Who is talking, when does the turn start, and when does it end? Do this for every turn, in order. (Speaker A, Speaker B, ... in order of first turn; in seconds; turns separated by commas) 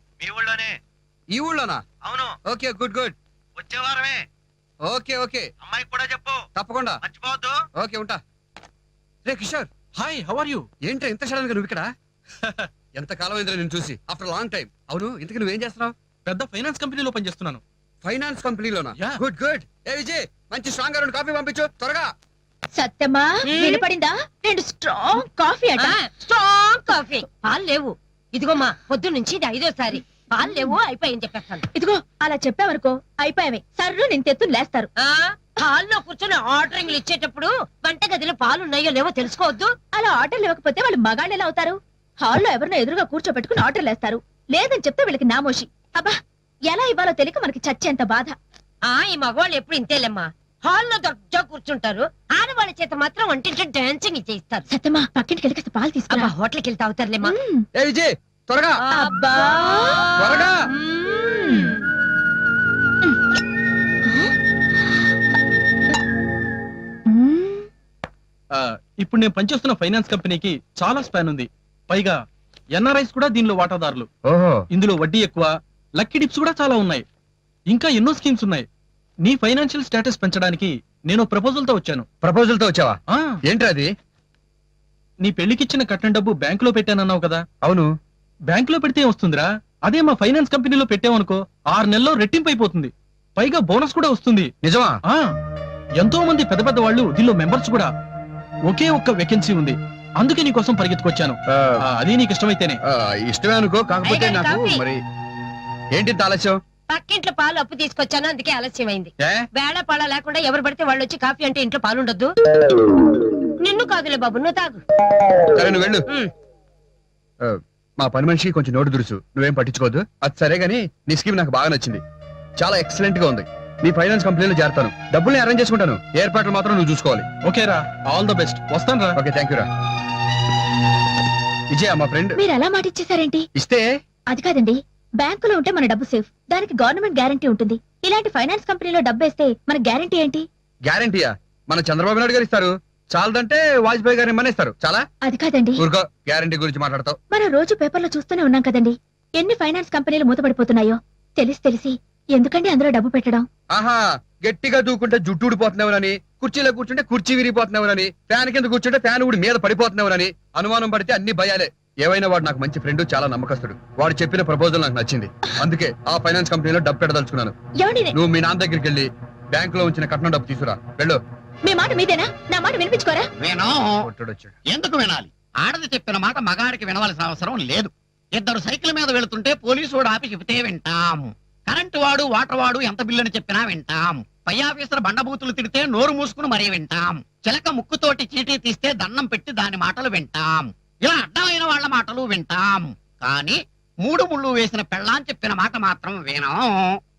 Speaker A: 0.2-0.7, Speaker B: 1.3-1.8, Speaker B: 2.5-3.1, Speaker A: 3.6-4.2, Speaker B: 4.8-5.4, Speaker A: 5.7-6.4, Speaker B: 6.5-7.0, Speaker A: 7.1-7.5, Speaker B: 7.8-8.2, Speaker B: 9.2-9.7, Speaker C: 9.9-10.6, Speaker B: 10.8-11.9, Speaker B: 13.0-15.9, Speaker C: 16.2-17.6, Speaker B: 18.0-22.1, Speaker D: 22.7-25.9, Speaker E: 23.5-23.8, Speaker E: 25.8-31.6, Speaker D: 31.7-34.9, Speaker E: 35.0-39.7, Speaker D: 39.9-46.1, Speaker D: 46.7-48.4, Speaker E: 48.9-54.6, Speaker D: 54.7-56.3, Speaker E: 56.1-57.3, Speaker D: 57.2-57.6, Speaker B: 57.7-58.8, Speaker E: 58.9-61.8, Speaker D: 58.9-60.0, Speaker B: 60.2-60.6, Speaker D: 67.1-67.7, Speaker C: 68.5-72.2, Speaker C: 72.7-74.1, Speaker B: 74.3-74.6, Speaker C: 74.7-77.0, Speaker C: 77.7-78.7, Speaker C: 79.2-82.0, Speaker B: 82.2-83.0, Speaker B: 83.5-83.9, Speaker C: 85.2-87.4, Speaker B: 87.6-87.9, Speaker C: 88.5-94.5, Speaker B: 94.6-95.0, Speaker C: 96.0-97.9, Speaker C: 98.7-102.8, Speaker B: 101.5-101.8, Speaker B: 102.9-105.0, Speaker E: 104.0-104.8, Speaker B: 105.9-106.6, Speaker E: 106.9-112.3, Speaker E: 113.6-114.8, Speaker B: 115.5-116.1, Speaker B: 117.4-122.0, Speaker B: 122.6-127.2, Speaker C: 127.4-129.2, Speaker B: 129.1-129.7, Speaker B: 131.7-132.4, Speaker D: 132.4-133.4, Speaker B: 133.5-133.8, Speaker D: 134.3-140.4, Speaker B: 140.8-145.0, Speaker D: 145.2-145.8, Speaker B: 145.8-147.2, Speaker D: 147.3-153.4, Speaker B: 153.7-167.5, Speaker D: 167.8-168.1, Speaker B: 168.1-171.2, Speaker D: 171.6-173.3, Speaker F: 173.4-174.1, Speaker B: 174.0-174.6, Speaker F: 174.7-197.0